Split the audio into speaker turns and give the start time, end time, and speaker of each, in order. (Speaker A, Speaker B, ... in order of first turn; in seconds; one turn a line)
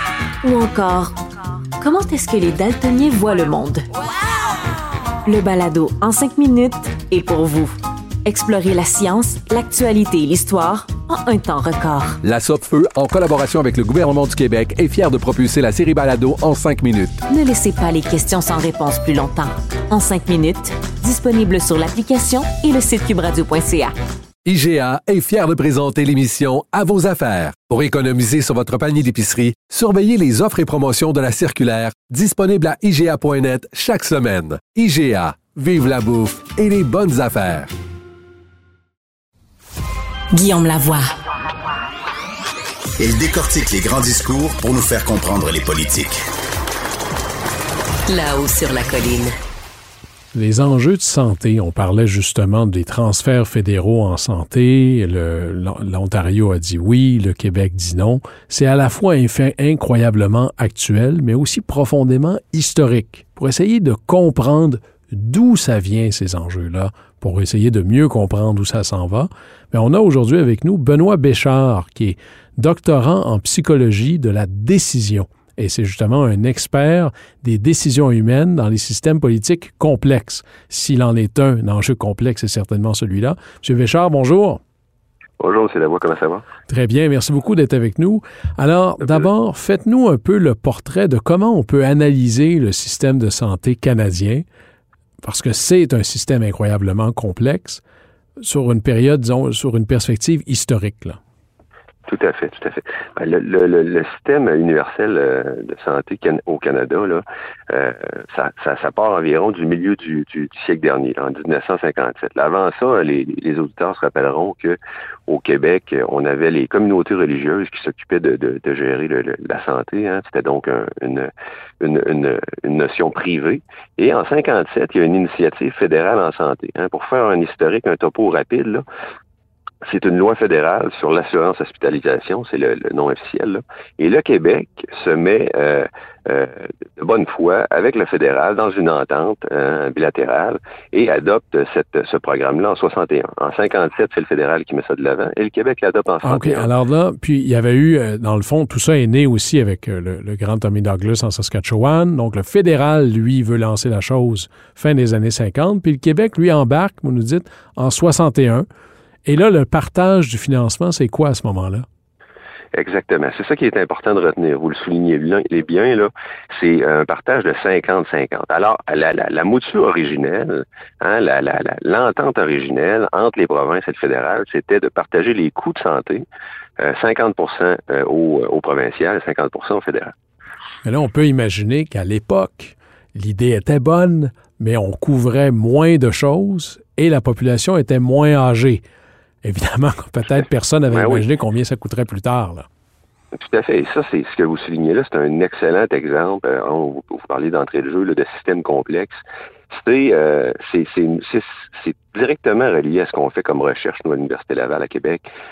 Speaker A: 0.4-1.1
Speaker A: 1.8-3.8
Speaker A: 5.2-12.2
Speaker B: 12.2-17.2
Speaker A: 17.3-23.9
Speaker B: 24.4-37.7
Speaker A: 40.3-41.1
Speaker C: 43.0-46.2
Speaker A: 48.1-49.3
Speaker D: 50.3-84.6
Speaker E: 85.4-86.4
Speaker D: 86.7-94.4
Speaker D: 95.2-97.8
Speaker D: 98.4-101.2
Speaker E: 102.1-128.8
Speaker E: 129.8-146.7
Speaker D: 146.2-158.7
Speaker D: 159.2-161.8
Speaker E: 162.7-176.2
Speaker E: 176.8-180.1
Speaker D: 180.8-188.8
Speaker D: 189.4-192.7
Speaker E: 190.9-191.2
Speaker E: 193.3-205.2